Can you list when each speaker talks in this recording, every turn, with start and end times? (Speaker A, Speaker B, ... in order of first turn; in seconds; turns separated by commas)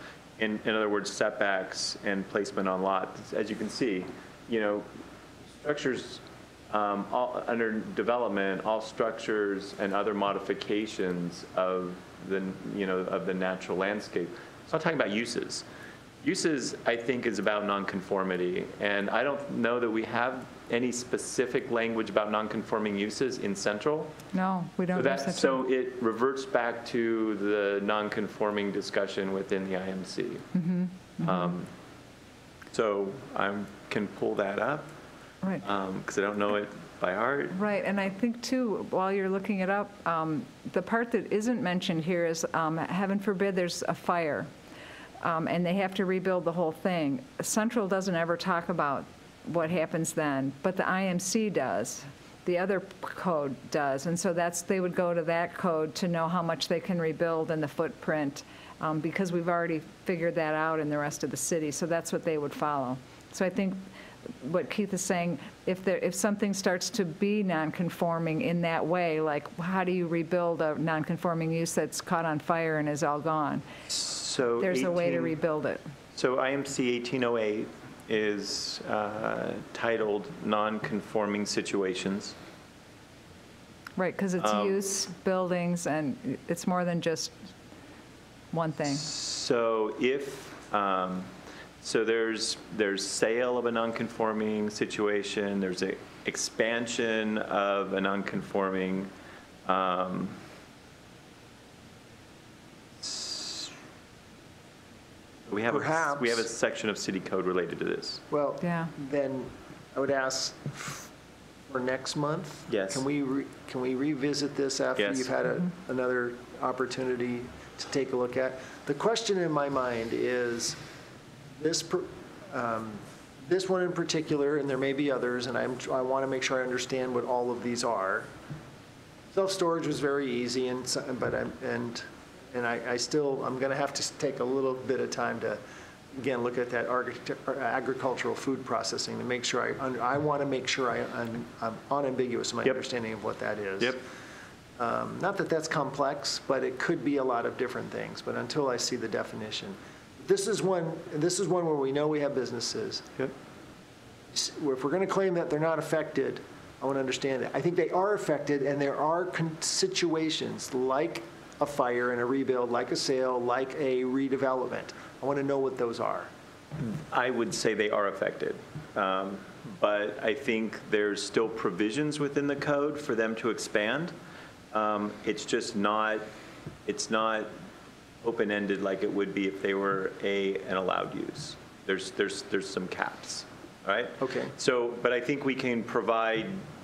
Speaker A: 0.4-4.9, Speaker A: 5.5-15.7, Speaker A: 16.2-24.2, Speaker B: 24.3-25.6, Speaker A: 24.9-30.5, Speaker B: 30.5-31.5, Speaker A: 31.2-31.7, Speaker A: 32.7-34.9, Speaker A: 35.6-37.6, Speaker B: 37.5-44.5, Speaker B: 45.2-63.8, Speaker B: 64.4-73.6, Speaker A: 73.9-75.4, Speaker B: 74.6-75.8, Speaker A: 76.1-82.3, Speaker B: 84.0-87.3, Speaker A: 84.4-84.8, Speaker B: 88.5-89.0, Speaker A: 88.9-99.1, Speaker A: 99.7-100.4, Speaker A: 103.0-103.7, Speaker A: 105.5-108.2, Speaker C: 105.7-106.5, Speaker C: 108.3-111.1, Speaker B: 108.6-108.9, Speaker C: 111.7-120.8, Speaker A: 112.7-113.0, Speaker A: 115.0-115.3, Speaker C: 121.6-128.3, Speaker C: 129.3-135.6, Speaker C: 136.1-144.0, Speaker C: 144.8-153.1, Speaker C: 154.3-166.3, Speaker A: 166.8-174.1, Speaker A: 174.7-176.3, Speaker A: 176.8-177.5, Speaker A: 178.2-186.6, Speaker C: 184.2-184.5